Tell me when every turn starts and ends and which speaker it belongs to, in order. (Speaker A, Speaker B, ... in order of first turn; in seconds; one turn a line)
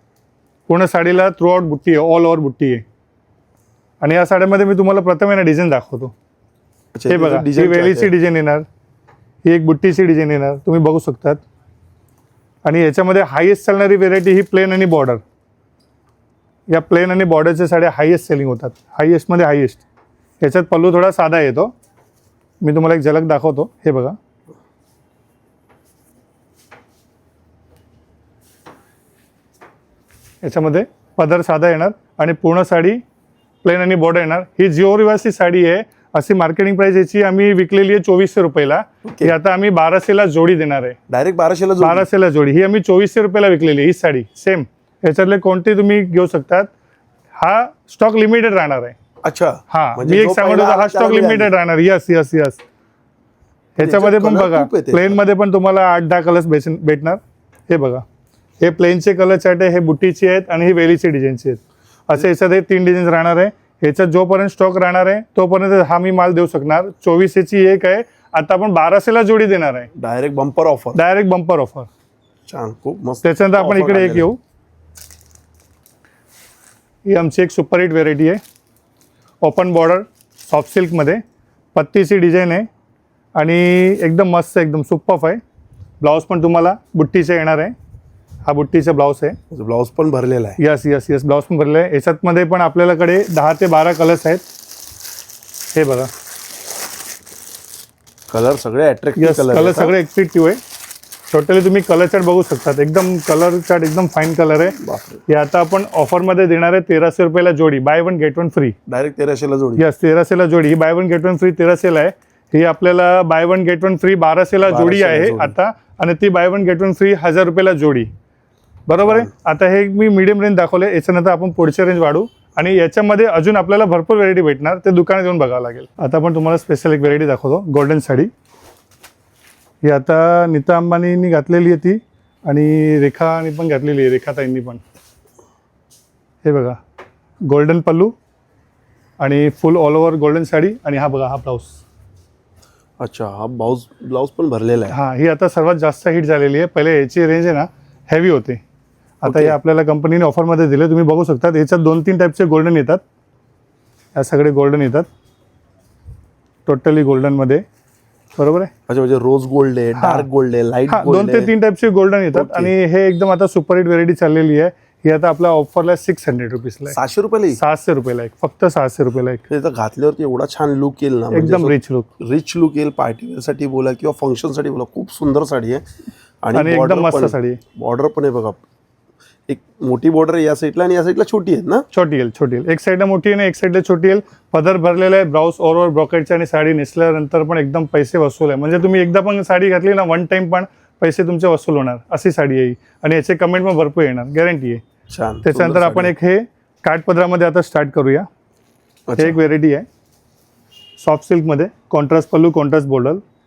Speaker A: 0.7-2.8
Speaker A: 4.0-6.1
Speaker B: 6.9-8.1
Speaker A: 7.1-8.7
Speaker A: 9.4-11.4
Speaker A: 12.6-15.2
Speaker A: 16.7-19.8
Speaker A: 20.4-21.7
Speaker A: 22.6-24.2
Speaker A: 30.4-33.0
Speaker A: 33.6-41.0
Speaker B: 39.0-39.3
Speaker B: 41.1-42.1
Speaker A: 41.8-46.7
Speaker A: 47.4-49.0
Speaker B: 49.2-51.5
Speaker A: 49.7-52.6
Speaker A: 53.8-58.0
Speaker B: 53.8-55.1
Speaker A: 58.6-69.9
Speaker B: 69.9-71.0
Speaker A: 70.9-71.9
Speaker B: 72.5-74.3
Speaker A: 73.2-74.4
Speaker A: 77.0-78.4
Speaker A: 79.4-81.2
Speaker A: 81.7-82.7
Speaker A: 83.3-85.4
Speaker A: 86.0-87.7
Speaker A: 88.4-89.4
Speaker B: 89.5-90.6
Speaker A: 90.6-94.4
Speaker A: 95.7-96.1
Speaker B: 98.3-99.9
Speaker A: 99.2-100.6
Speaker A: 101.3-108.8
Speaker B: 104.8-105.2
Speaker B: 108.9-109.8
Speaker A: 109.8-118.1
Speaker B: 114.6-115.5
Speaker A: 118.9-128.3
Speaker B: 119.0-119.3
Speaker A: 129.8-134.8
Speaker A: 136.4-136.8
Speaker A: 137.4-138.1
Speaker A: 139.2-141.8
Speaker B: 143.0-144.9
Speaker A: 144.9-148.6
Speaker A: 149.2-153.0
Speaker B: 149.2-149.6
Speaker A: 154.1-155.1
Speaker A: 156.7-157.6
Speaker A: 158.3-158.7
Speaker B: 158.9-161.5
Speaker A: 159.9-160.3
Speaker A: 160.9-167.0
Speaker B: 162.3-162.7
Speaker B: 166.9-167.6
Speaker A: 167.5-169.4
Speaker B: 169.5-175.8
Speaker A: 171.3-172.1
Speaker B: 176.4-178.6
Speaker A: 176.5-177.6
Speaker B: 179.5-181.8
Speaker A: 181.9-194.8
Speaker B: 195.1-196.1
Speaker A: 195.4-198.3
Speaker B: 199.1-199.4
Speaker A: 199.2-199.9
Speaker A: 201.0-203.2